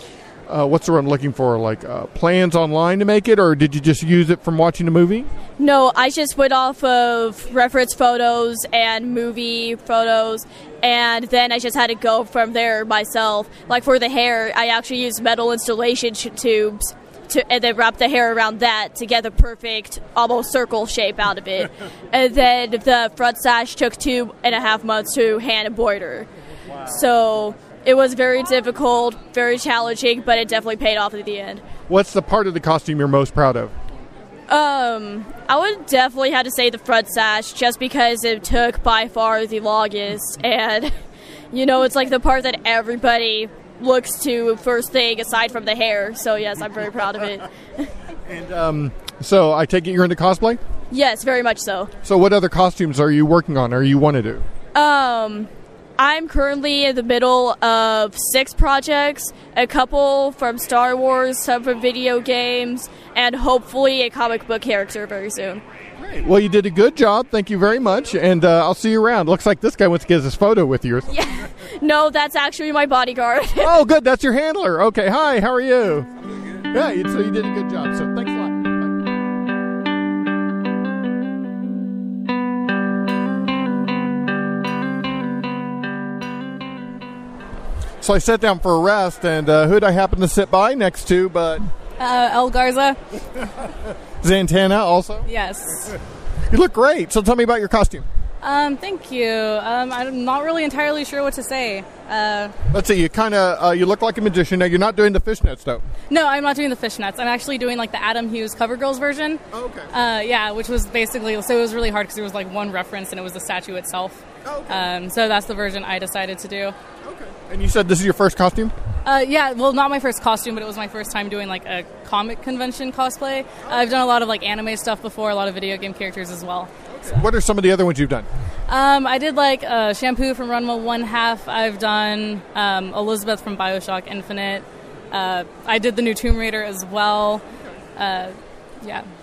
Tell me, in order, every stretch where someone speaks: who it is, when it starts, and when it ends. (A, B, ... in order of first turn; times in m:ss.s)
0:00.5-0:05.3 A
0:05.6-0:26.3 B
0:26.8-0:31.6 B
0:31.9-0:33.7 A
0:34.5-0:40.9 B
0:41.5-0:47.9 B
0:48.3-0:50.6 A
0:50.9-0:51.9 B
0:52.0-0:54.4 A
0:54.7-1:05.6 B
1:06.0-1:11.1 A
1:11.1-1:13.8 B
1:13.6-1:16.1 A
1:16.7-1:18.9 A
1:28.0-1:31.7 A
1:32.0-1:33.0 C
1:34.2-1:35.3 A
1:35.3-1:35.9 C
1:36.5-1:38.1 A
1:38.4-1:42.5 C
1:42.7-1:45.8 A
1:46.1-1:49.4 C
1:49.5-1:49.9 A
1:49.9-1:56.8 C
1:54.4-1:54.8 A
1:57.0-1:58.7 A
1:59.0-2:06.7 C
2:06.9-2:08.3 A
2:08.7-2:17.4 C
2:18.0-2:19.1 C